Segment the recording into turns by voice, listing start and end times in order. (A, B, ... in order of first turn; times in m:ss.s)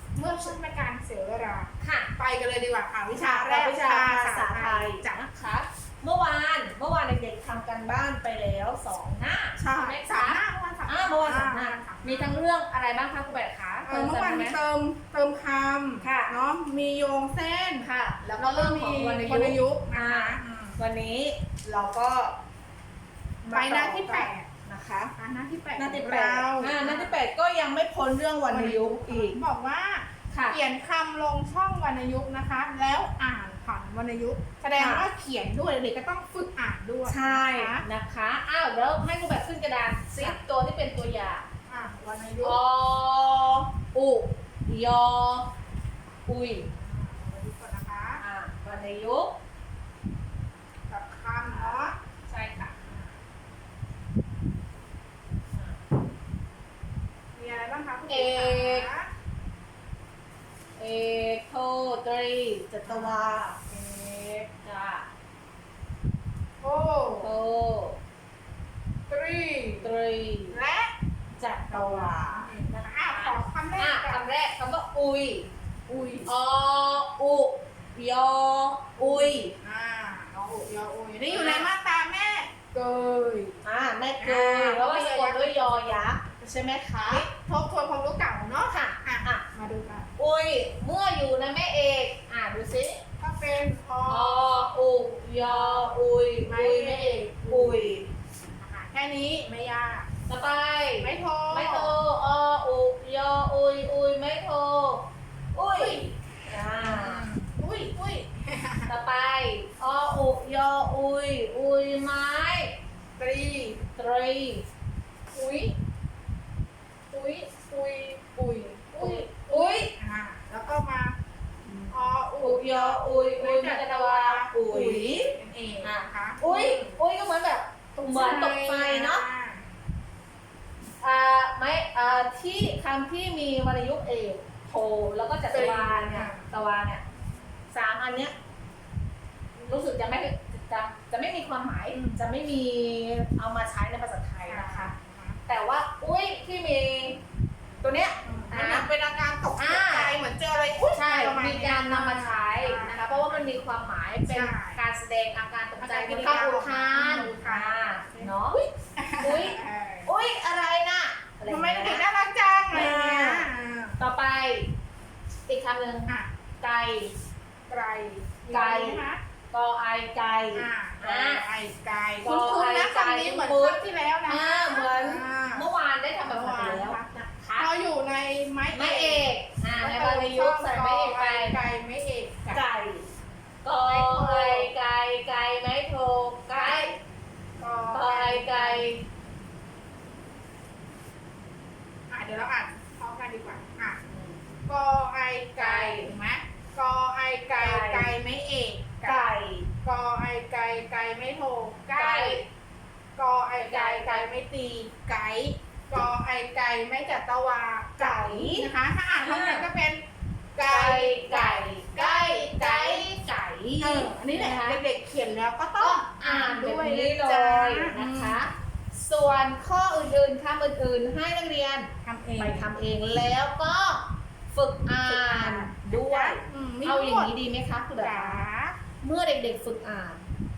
0:00.2-0:05.2 A
0:01.8-0:02.1 B
0:03.1-0:14.6 B
0:09.6-0:12.4 A
0:13.8-0:20.8 A
0:16.0-0:16.3 B
0:17.8-0:22.4 B
0:23.4-0:25.1 B
0:23.5-0:24.5 A
0:25.2-0:27.2 A
0:25.8-0:29.4 B
0:28.5-0:37.8 A
0:30.3-0:30.6 B
0:34.8-0:35.1 B
0:37.1-0:41.4 B
0:41.7-0:42.6 A
0:42.4-0:45.5 B
0:46.3-0:46.7 B
0:46.7-0:48.2 A
0:48.2-0:49.4 B
0:50.9-0:52.0 A
0:51.5-0:52.8 B
0:57.4-0:59.1 A
0:58.1-0:58.9 B
1:00.8-1:03.6 B
1:02.8-1:04.5 A
1:04.6-1:05.1 B
1:06.6-1:07.3 A
1:07.2-1:08.0 B
1:09.1-1:09.9 A
1:09.8-1:10.6 B
1:10.5-1:11.0 A
1:11.4-1:15.5 B
1:11.7-1:14.2 A
1:15.9-1:16.3 A
1:16.3-1:19.5 B
1:19.0-1:23.6 A
1:21.2-1:21.7 B
1:23.6-1:27.3 B
1:24.2-1:26.0 A
1:27.0-1:30.1 A
1:28.7-1:29.4 B
1:30.2-1:33.0 B
1:33.2-1:34.6 A
1:34.1-1:38.1 B
1:35.4-1:37.9 A
1:38.6-1:40.1 A
1:40.3-1:47.3 B
1:41.0-1:42.0 A
1:45.8-1:46.2 A
1:46.8-1:48.9 A
1:48.9-1:52.8 B
1:53.2-1:53.8 A
1:54.0-1:54.6 B
1:55.3-1:55.8 A
1:57.1-2:01.2 A
1:59.0-1:59.9 B
2:01.7-2:09.3 B
2:01.9-2:07.0 A
2:08.1-2:09.7 A
2:11.0-2:17.0 B
2:15.5-2:16.5 A
2:17.7-2:18.3 B
2:19.6-2:24.9 B
2:21.9-2:22.2 A
2:24.5-2:25.4 A
2:25.5-2:27.2 B
2:27.8-2:28.9 B
2:28.2-2:33.6 A
2:29.6-2:30.2 B
2:30.9-2:38.7 B
2:34.3-2:34.8 A
2:35.8-2:40.1 A
2:39.2-2:42.0 B
2:41.4-2:44.0 A
2:42.7-2:44.7 B
2:45.5-2:47.1 B
2:47.7-2:49.2 A
2:48.5-2:51.4 B
2:50.5-2:55.7 A
2:52.2-2:57.7 B
2:56.2-3:02.7 A
2:58.7-3:01.6 B
3:02.5-3:03.1 B
3:03.6-3:07.0 B
3:03.8-3:04.7 A
3:06.6-3:06.9 A
3:07.6-3:08.9 A
3:07.9-3:09.0 B
3:12.1-3:14.0 A
3:14.1-3:14.4 B
3:14.7-3:19.3 A
3:15.6-3:16.1 B
3:17.6-3:18.1 B
3:19.0-3:19.7 B
3:19.8-3:22.4 A
3:21.9-3:22.4 B
3:23.2-3:30.0 A
3:23.6-3:24.3 B
3:28.0-3:29.7 B
3:30.6-3:33.0 A
3:30.6-3:34.8 B
3:33.8-3:38.4 A
3:35.8-3:48.4 B
3:42.0-3:42.7 A
3:45.0-3:47.3 A
3:48.0-3:48.8 A
3:49.0-3:50.2 B